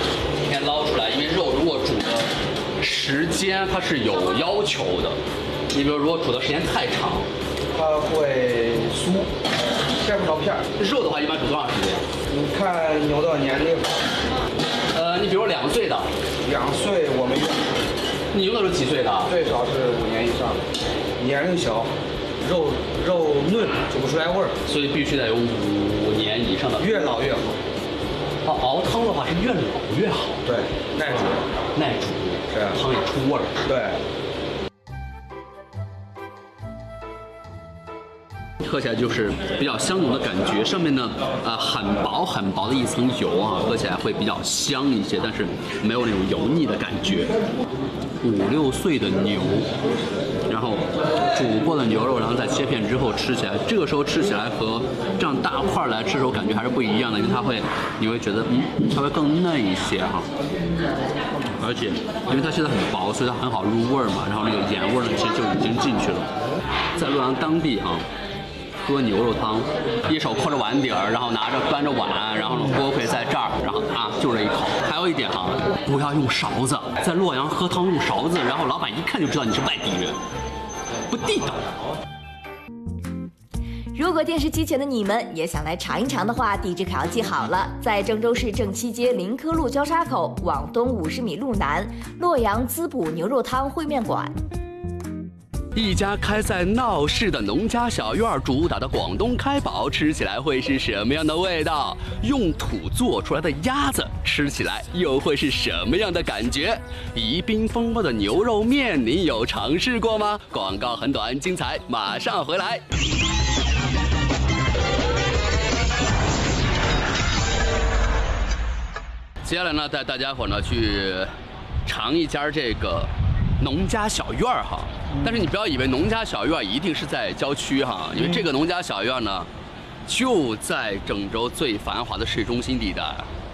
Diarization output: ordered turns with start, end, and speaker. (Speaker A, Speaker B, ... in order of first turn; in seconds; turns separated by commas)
Speaker A: 0.3-5.2, Speaker A: 5.7-7.3, Speaker B: 7.7-10.7, Speaker A: 10.8-12.1, Speaker B: 12.3-13.9, Speaker A: 14.9-16.1, Speaker B: 16.4-17.7, Speaker A: 18.3-19.3, Speaker B: 19.3-20.6, Speaker B: 21.2-24.5, Speaker A: 24.6-27.1, Speaker B: 26.8-27.5, Speaker A: 28.4-30.4, Speaker B: 30.4-31.4, Speaker A: 31.7-33.6, Speaker B: 32.5-32.8, Speaker B: 33.6-34.0, Speaker A: 38.6-47.3, Speaker A: 48.2-49.7, Speaker A: 50.5-60.3, Speaker A: 61.6-66.3, Speaker A: 67.0-68.1, Speaker A: 68.8-80.2, Speaker A: 81.1-81.7, Speaker C: 83.9-94.3, Speaker A: 95.7-112.8, Speaker A: 119.4-121.3, Speaker A: 121.8-129.5, Speaker A: 130.1-133.3